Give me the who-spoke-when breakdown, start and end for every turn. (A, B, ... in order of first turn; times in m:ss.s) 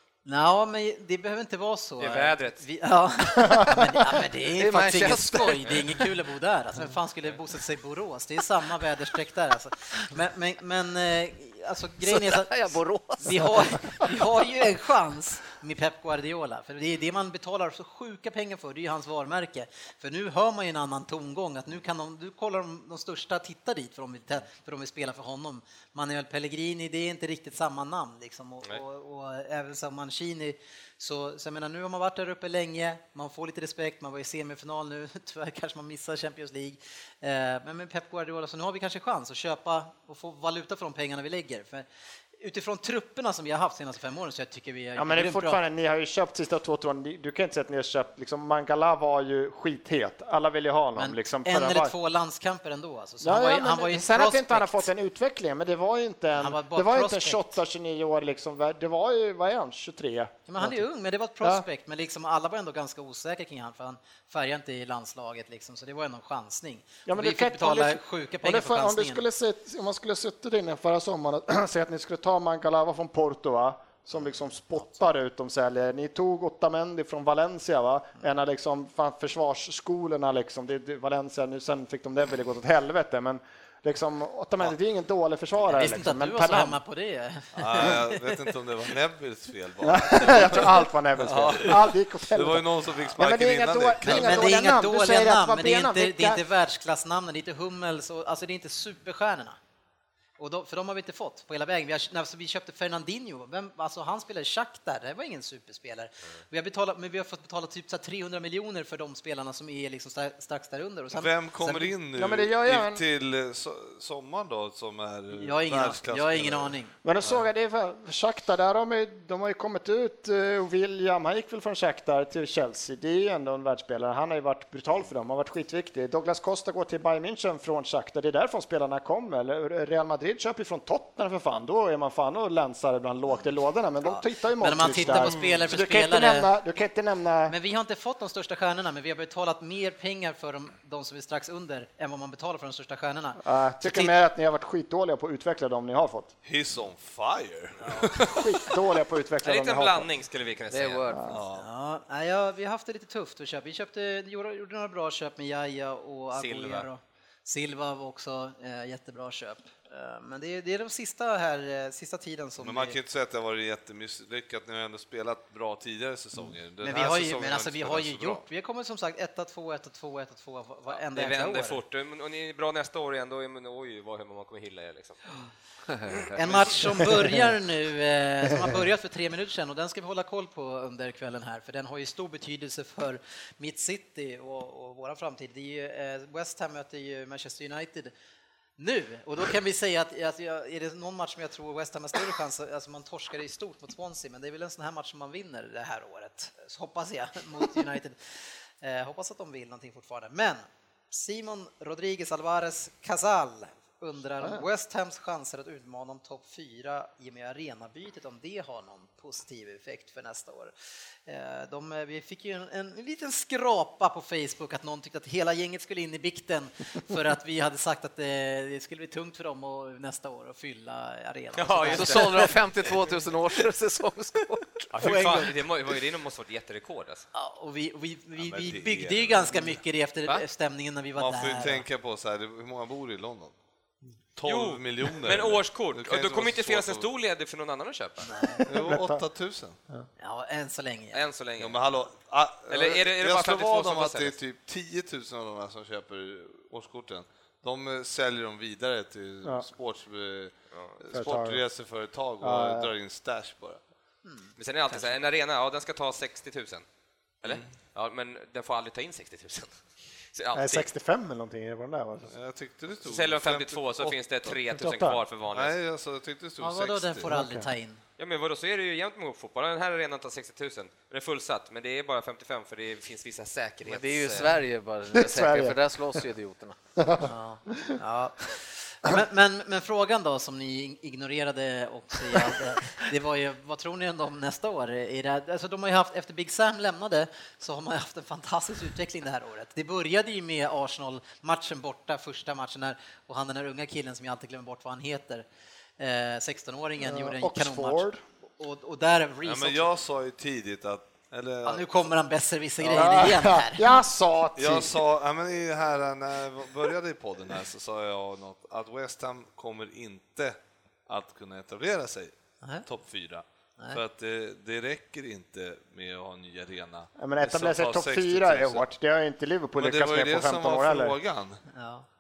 0:00.3-0:41.9 A
0:02.0-0:02.6 B
0:03.4-0:04.2 C
0:04.5-0:06.0 D
0:12.0-0:14.1 D
0:42.4-0:45.6 A
0:45.0-0:51.9 C
0:51.0-0:54.9 A
0:53.2-1:00.8 C
0:56.4-0:57.6 A
1:00.5-1:09.2 A
1:07.1-1:26.8 C
1:25.7-1:28.4 A
1:27.6-1:34.5 E
1:29.8-1:36.4 C
1:34.0-1:39.6 A
1:40.4-1:51.9 A
1:51.1-1:56.8 E
1:52.2-1:53.0 C
1:55.3-1:57.0 A
1:57.0-2:17.6 C
2:14.0-2:16.5 A
2:17.5-2:24.2 A
2:23.4-2:26.3 C
2:26.4-2:28.5 E
2:27.8-2:28.2 A
2:28.2-2:30.1 C
2:29.4-2:31.1 B
2:30.7-2:31.4 D
2:31.1-2:31.4 C
2:31.3-2:31.7 E
2:31.6-2:43.0 A
2:36.3-2:36.9 B
2:42.6-2:48.4 E
2:46.8-2:51.8 A
2:50.9-2:55.2 B
2:55.9-2:56.4 D
2:56.4-3:08.1 A
3:08.8-3:30.7 A
3:31.3-3:42.5 A
3:41.6-3:42.6 B
3:41.9-3:44.9 D
3:44.9-3:47.3 B
3:45.0-3:45.6 A
3:47.3-3:51.8 A
3:48.4-3:49.8 E
3:51.2-3:53.5 E
3:54.4-3:57.1 E
3:54.4-3:58.3 B
3:58.2-3:58.6 A
3:58.6-3:59.8 E
3:58.7-3:59.2 C
4:00.2-4:01.2 A
4:01.1-4:01.8 B
4:01.6-4:13.8 E
4:02.7-4:04.4 B
4:11.1-4:11.6 C
4:12.4-4:12.9 C
4:14.2-4:14.5 A
4:14.6-4:16.8 B
4:17.4-4:19.8 B
4:20.3-4:20.9 B
4:20.5-4:22.3 C
4:22.3-4:24.2 E
4:23.1-4:25.7 B
4:24.8-4:25.2 C
4:25.5-4:27.3 E
4:26.6-4:28.0 A
4:27.3-4:27.7 C
4:28.2-4:34.6 B
4:33.8-4:36.8 D
4:35.1-4:36.2 C
4:37.0-4:38.0 C
4:37.2-4:55.4 A
4:56.0-4:59.9 A
4:57.0-4:58.2 C
4:59.4-5:01.9 E
5:01.6-5:03.8 A
5:02.8-5:03.2 E
5:02.9-5:05.0 C
5:04.6-5:12.3 E
5:12.8-5:18.8 E
5:17.2-5:21.2 C
5:19.8-5:21.6 E
5:21.7-5:22.1 A